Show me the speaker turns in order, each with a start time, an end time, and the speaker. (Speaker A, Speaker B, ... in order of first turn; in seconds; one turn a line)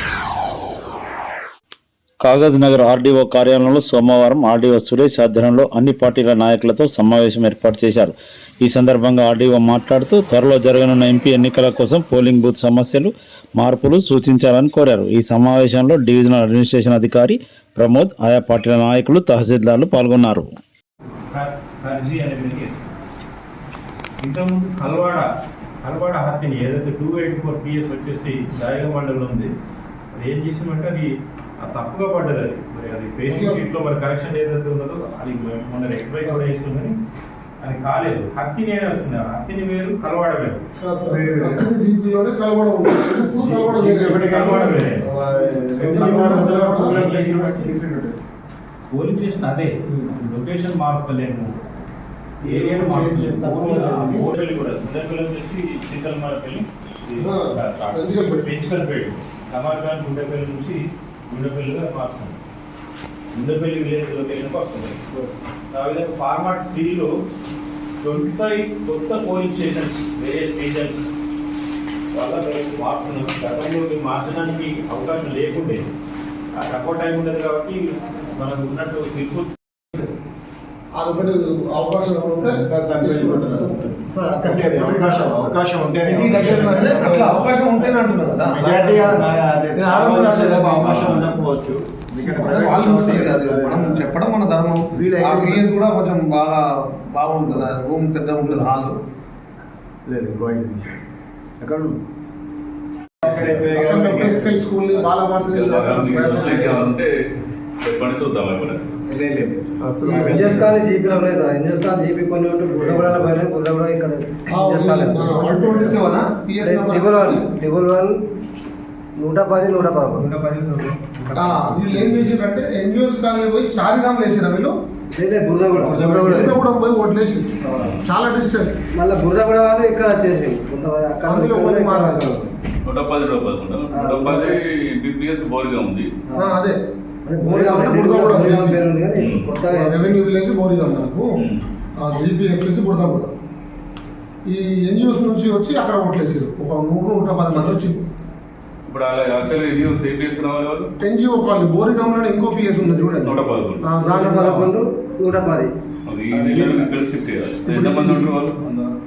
Speaker A: 2.2-20.5
Speaker B: 21.3-22.9
Speaker B: 24.2-25.3
Speaker B: 25.8-29.5
Speaker B: 30.1-37.0
Speaker C: 33.3-33.6
Speaker B: 37.6-40.6
Speaker C: 40.8-44.8
Speaker D: 41.1-41.7
Speaker D: 43.5-48.2
Speaker B: 44.1-45.1
Speaker C: 45.8-47.0
Speaker B: 45.9-47.7
Speaker B: 48.9-51.5
Speaker B: 52.4-62.4
Speaker D: 52.4-54.3
Speaker C: 57.2-58.5
Speaker B: 63.4-65.0
Speaker B: 65.7-67.1
Speaker B: 68.0-71.1
Speaker B: 72.1-75.9
Speaker B: 76.6-79.5
Speaker C: 81.0-83.8
Speaker D: 82.4-94.1
Speaker C: 86.2-91.3
Speaker C: 92.2-96.6
Speaker D: 94.9-95.7
Speaker C: 97.1-99.0
Speaker D: 97.4-97.7
Speaker D: 100.1-101.0
Speaker D: 101.6-102.0
Speaker D: 103.2-105.1
Speaker C: 103.6-106.9
Speaker E: 105.5-107.1
Speaker E: 107.8-108.8
Speaker D: 109.1-110.8
Speaker F: 110.0-116.0
Speaker D: 112.8-113.3
Speaker C: 114.5-117.5
Speaker F: 116.6-118.1
Speaker F: 119.2-120.3
Speaker D: 120.4-122.2
Speaker C: 121.3-124.8
Speaker F: 125.2-126.5
Speaker D: 125.8-126.6
Speaker C: 125.9-128.8
Speaker F: 127.6-128.0
Speaker F: 129.0-132.5
Speaker C: 131.3-132.4
Speaker E: 132.9-136.1
Speaker F: 133.9-134.6
Speaker C: 136.4-136.8
Speaker F: 137.3-140.2
Speaker C: 137.4-138.8
Speaker E: 139.2-139.5
Speaker C: 139.6-141.3
Speaker C: 142.0-143.3
Speaker C: 144.5-148.1
Speaker E: 147.5-147.9
Speaker E: 148.8-150.9
Speaker C: 151.0-154.8
Speaker E: 153.2-153.8
Speaker F: 154.0-155.7
Speaker E: 156.1-158.9
Speaker F: 156.4-156.8
Speaker C: 157.7-158.3